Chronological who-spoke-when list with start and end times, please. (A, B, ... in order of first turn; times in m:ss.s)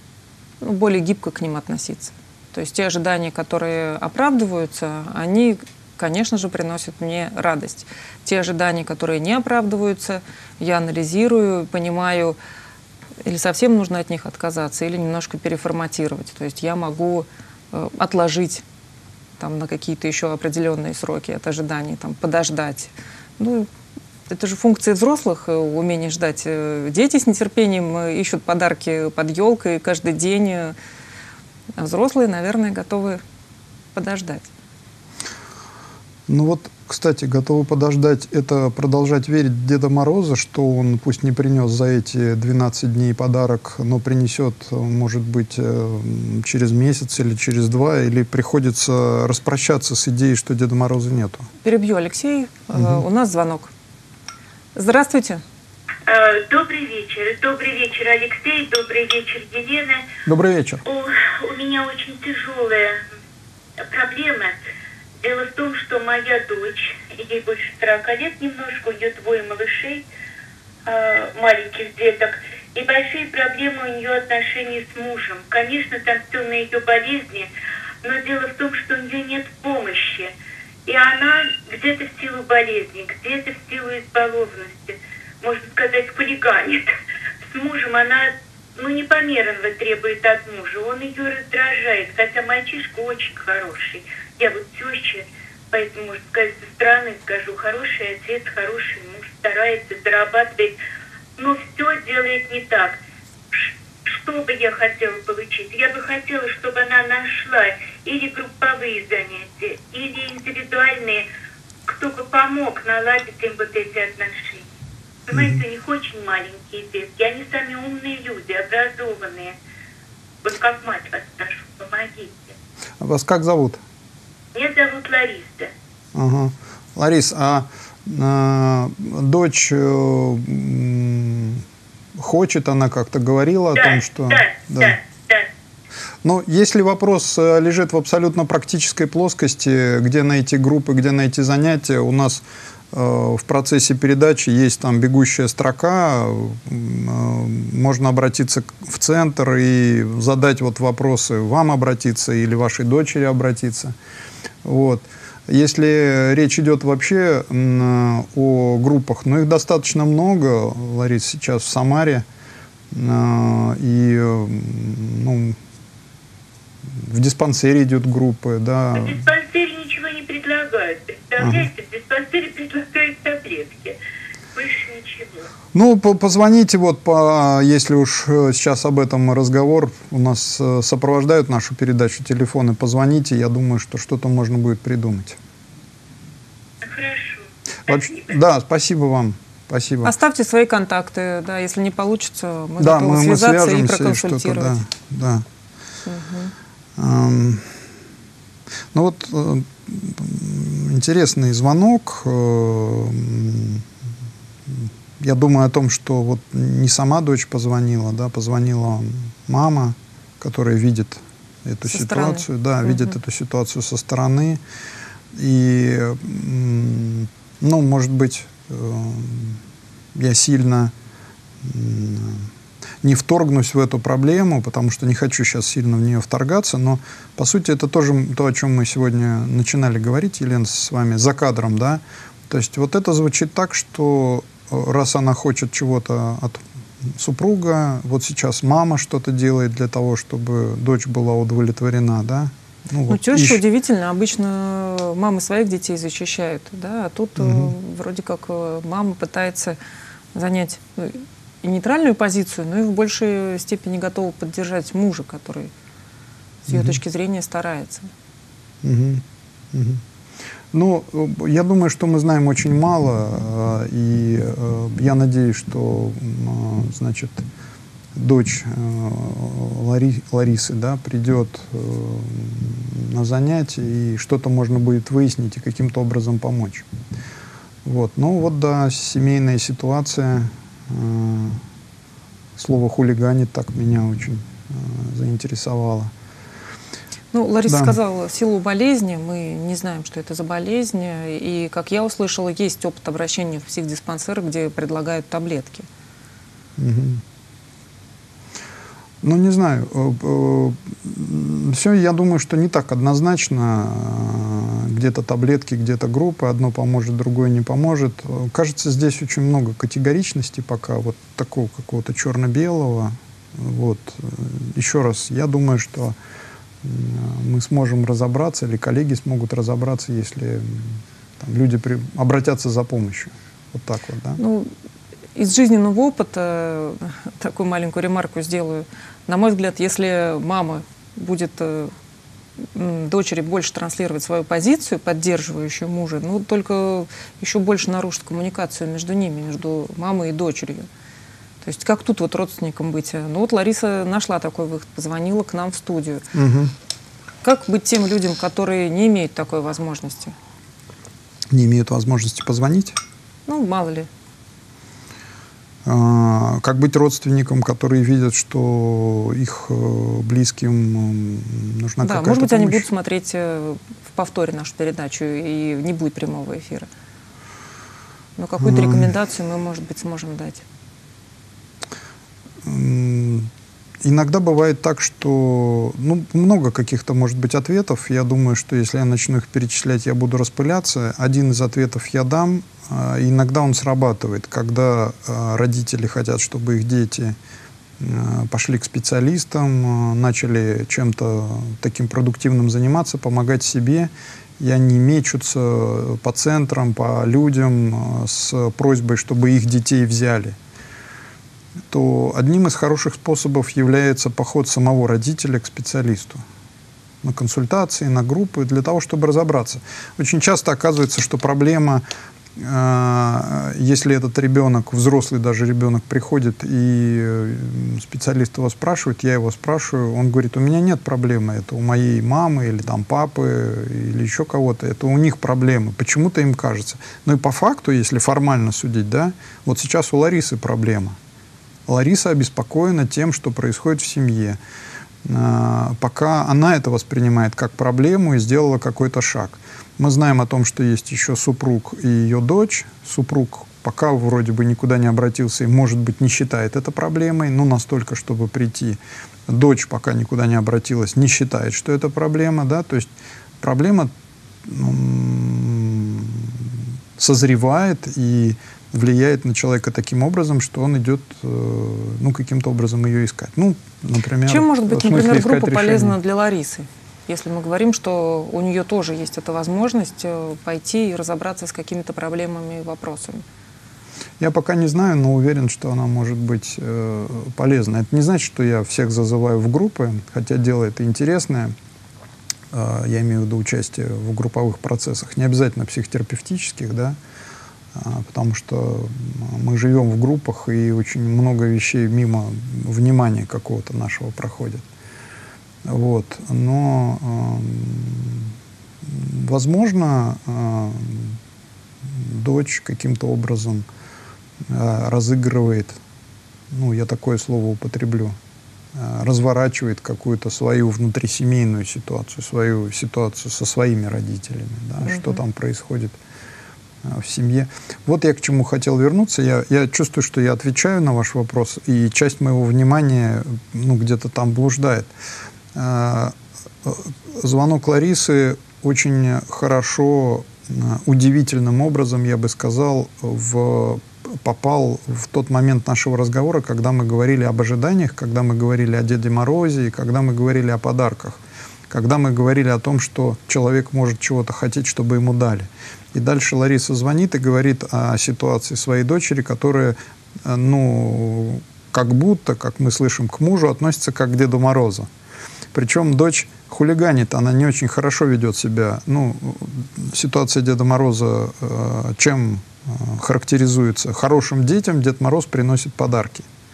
0:00.6-0:12.4 A
0:13.2-0:18.6 A
0:19.4-0:23.7 A
0:24.3-0:30.8 A
0:31.8-0:33.2 A
0:33.9-0:34.5 A
0:36.3-0:51.5 B
0:51.6-0:53.7 A
0:52.7-0:53.0 B
0:54.8-0:55.4 A
0:56.1-1:00.1 C
1:00.2-1:00.8 B
1:00.8-1:03.1 C
1:03.8-1:04.6 C
1:05.2-1:10.0 C
1:10.9-1:17.5 C
1:18.0-1:20.3 C
1:20.9-1:26.9 C
1:27.5-1:40.8 C
1:41.4-1:43.0 C
1:43.5-1:51.3 C
1:51.9-1:54.6 C
1:55.3-1:59.5 C
1:55.3-1:55.6 B
2:00.4-2:02.5 C
2:03.0-2:03.8 B
2:04.5-2:05.7 C
2:06.1-2:11.6 B
2:12.2-2:15.0 B
2:13.8-2:15.5 C
2:16.2-2:34.0 B
2:34.6-2:42.2 B
2:42.9-2:45.6 B
2:46.9-2:49.2 B
2:49.0-2:54.0 C
2:51.4-2:51.7 B
2:54.5-2:55.5 C
2:55.7-3:05.4 B
3:06.8-3:08.3 C
3:07.9-3:10.1 B
3:10.0-3:14.8 A
3:12.8-3:15.5 B
3:16.0-3:16.5 A
3:17.0-3:17.8 B
3:18.9-3:23.9 B
3:24.7-3:34.6 B
3:31.9-3:33.1 A
3:35.3-3:39.6 B
3:40.1-3:40.9 B
3:41.6-3:42.5 B
3:43.0-4:03.6 B
4:03.1-4:09.8 A
4:07.4-4:07.7 B
4:10.3-4:15.7 A
4:16.7-4:17.0 B
4:16.7-4:18.1 A
4:18.8-4:20.0 B
4:20.7-4:27.4 B
4:28.1-4:36.9 B
4:37.8-4:41.6 B
4:42.6-4:46.1 B
4:47.3-4:55.9 A
4:47.7-4:48.0 B
4:56.8-4:57.2 B
4:59.2-5:16.2 B
5:16.8-5:24.4 B
5:24.4-5:24.7 A
5:25.4-5:31.9 A
5:32.6-5:40.9 A
5:41.6-5:46.2 A
5:46.3-5:46.7 B
5:47.4-5:50.4 A
5:51.5-5:53.0 B
5:53.5-5:54.1 A
5:55.8-6:02.9 B
6:02.0-6:06.9 A
6:08.4-6:10.6 A
6:08.6-6:09.1 B
6:12.6-6:13.5 B
6:14.0-6:27.4 B
6:28.0-6:40.6 B
6:41.9-6:46.4 B
6:47.2-6:52.0 B
6:52.6-7:11.2 B
7:11.9-7:14.6 B
7:15.2-7:34.1 B
7:34.6-7:46.2 B
7:44.5-7:53.4 A
7:54.4-8:01.7 B
8:02.7-8:07.2 B
8:07.9-8:14.9 B
8:15.8-8:21.4 B
8:22.0-8:23.9 B
8:24.7-8:26.0 B
8:26.7-8:28.4 B
8:28.9-8:36.2 B
8:35.0-8:35.4 A
8:37.0-8:45.1 B
8:45.7-9:15.1 B
9:15.7-9:26.5 B